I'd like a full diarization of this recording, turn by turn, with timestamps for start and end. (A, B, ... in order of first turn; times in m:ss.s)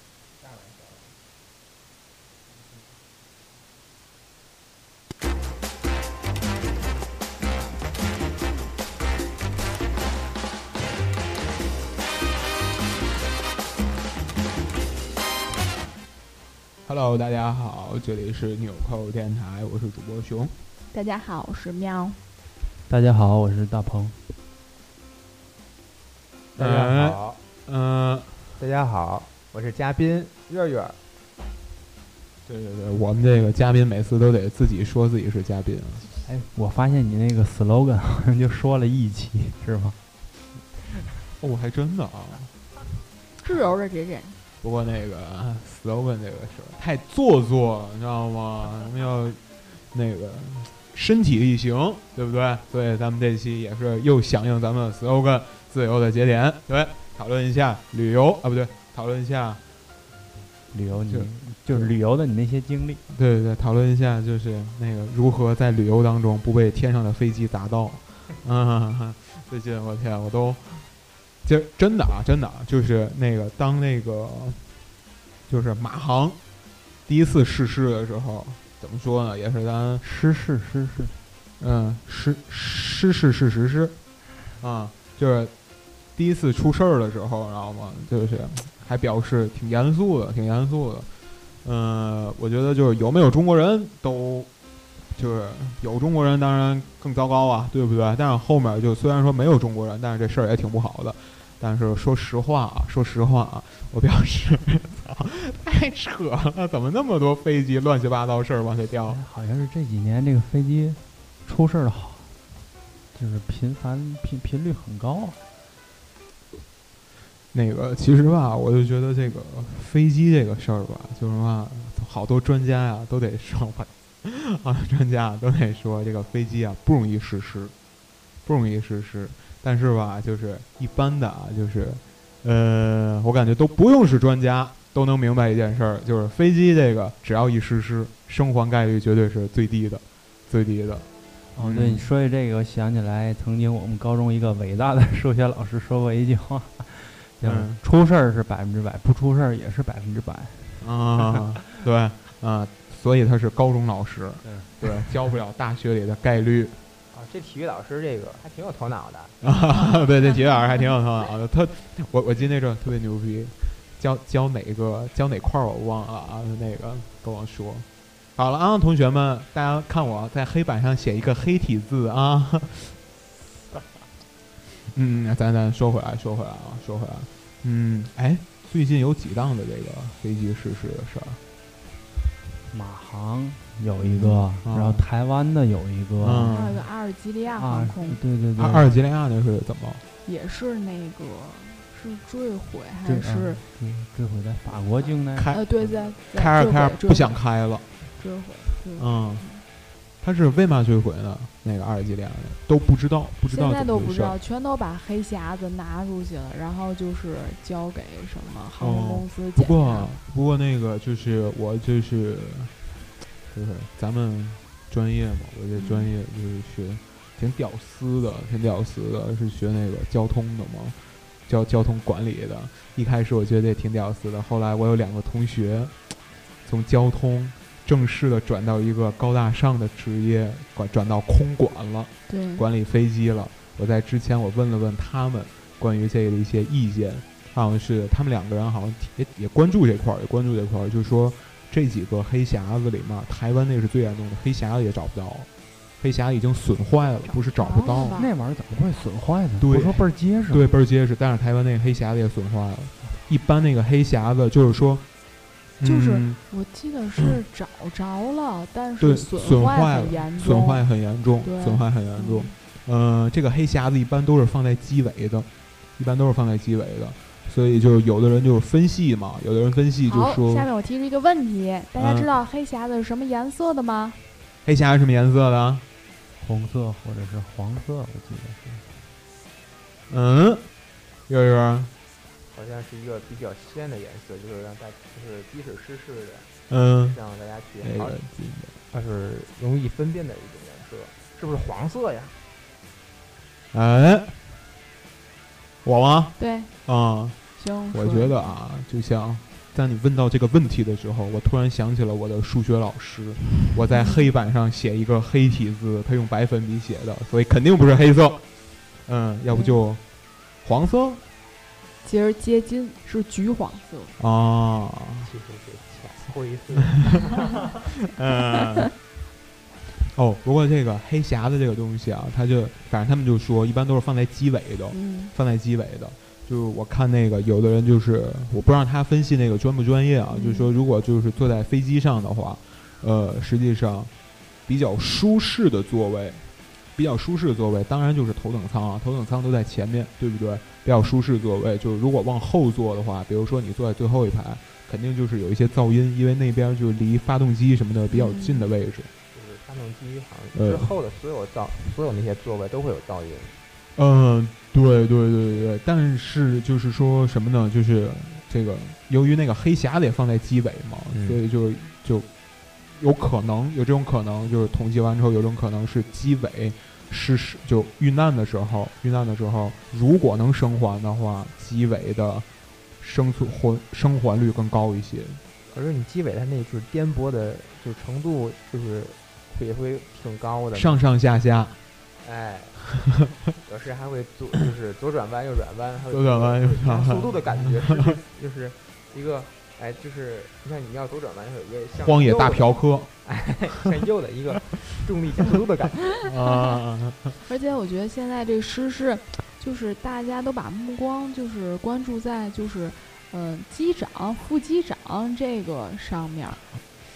0:00.4-0:01.2 A
0:16.9-0:20.5 B
0:20.9-0:22.2 C
0:22.9-0:24.2 D
0:26.6-0:27.4 A
0:26.6-0:28.4 B
0:28.6-0:31.0 A
0:32.5-0:36.1 B
0:36.2-0:40.0 D
0:41.4-0:42.5 B
0:43.4-0:44.4 C
0:44.6-0:59.6 B
1:00.7-1:03.0 D
1:01.0-1:01.9 B
1:03.1-1:10.9 B
1:11.4-1:14.6 B
1:15.5-1:16.4 B
1:17.1-1:20.0 B
1:20.0-1:21.1 D
1:21.6-1:24.0 B
1:24.6-1:25.5 B
1:26.2-1:31.1 B
1:31.6-1:34.5 B
1:35.1-1:49.2 B
1:49.1-1:52.3 D
1:53.1-1:55.4 D
1:57.5-2:07.7 B
2:08.4-2:21.1 B
2:21.6-2:31.3 D
2:21.6-2:22.1 B
2:27.4-2:27.8 B
2:30.8-2:36.8 B
2:34.4-2:35.1 D
2:37.1-2:39.4 A
2:39.4-2:53.0 B
2:54.9-3:01.4 B
3:02.7-3:06.6 D
3:04.0-3:05.0 B
3:06.2-3:06.8 B
3:06.5-3:08.2 C
3:07.6-3:08.9 D
3:08.6-3:10.0 B
3:10.2-3:13.6 C
3:13.0-3:15.9 D
3:15.4-3:15.6 B
3:15.5-3:17.4 C
3:16.3-3:17.8 B
3:18.2-3:19.6 C
3:19.0-3:19.4 B
3:20.2-3:24.4 B
3:23.5-3:30.1 C
3:28.8-3:32.7 B
3:33.5-3:41.0 B
3:35.7-3:36.1 C
3:41.5-3:45.9 B
3:46.6-4:05.5 B
3:52.3-3:52.6 C
4:06.0-4:08.2 B
4:07.3-4:08.3 C
4:08.1-4:10.6 D
4:09.6-4:15.0 B
4:15.8-4:16.4 B
4:15.8-4:20.8 C
4:19.0-4:30.7 B
4:21.4-4:22.5 C
4:30.1-4:34.2 C
4:32.0-4:32.3 B
4:34.6-4:35.8 B
4:36.4-4:38.9 D
4:40.1-4:40.6 B
4:41.3-4:41.9 B
4:42.5-4:46.5 A
4:46.7-4:47.2 B
4:47.1-4:48.2 A
4:47.8-4:48.7 B
4:48.9-4:52.4 A
4:53.7-4:54.4 B
4:55.8-4:56.4 B
4:56.4-4:56.7 C
4:56.9-4:57.4 B
4:57.6-4:58.6 C
4:57.9-5:08.4 B
5:03.9-5:04.3 C
5:09.1-5:10.0 B
5:09.5-5:09.8 C
5:10.6-5:11.2 B
5:12.0-5:14.1 C
5:14.2-5:15.3 B
5:15.2-5:17.6 A
5:18.1-5:18.9 B
5:20.1-5:34.1 B
5:24.9-5:25.3 C
5:30.3-5:30.7 C
5:34.7-5:36.4 B
5:37.0-5:49.1 B
5:48.1-5:48.7 C
5:49.3-5:53.6 A
5:50.5-5:50.9 B
5:54.0-6:02.3 B
6:01.1-6:01.4 A
6:02.9-6:12.5 B
6:13.0-6:15.4 B
6:15.7-6:21.0 A
6:20.7-6:21.8 B
6:22.2-6:22.9 A
6:23.6-6:36.2 A
6:26.1-6:28.2 B
6:32.0-6:33.1 B
6:36.2-6:37.4 B
6:36.5-6:36.8 C
6:37.4-6:46.6 C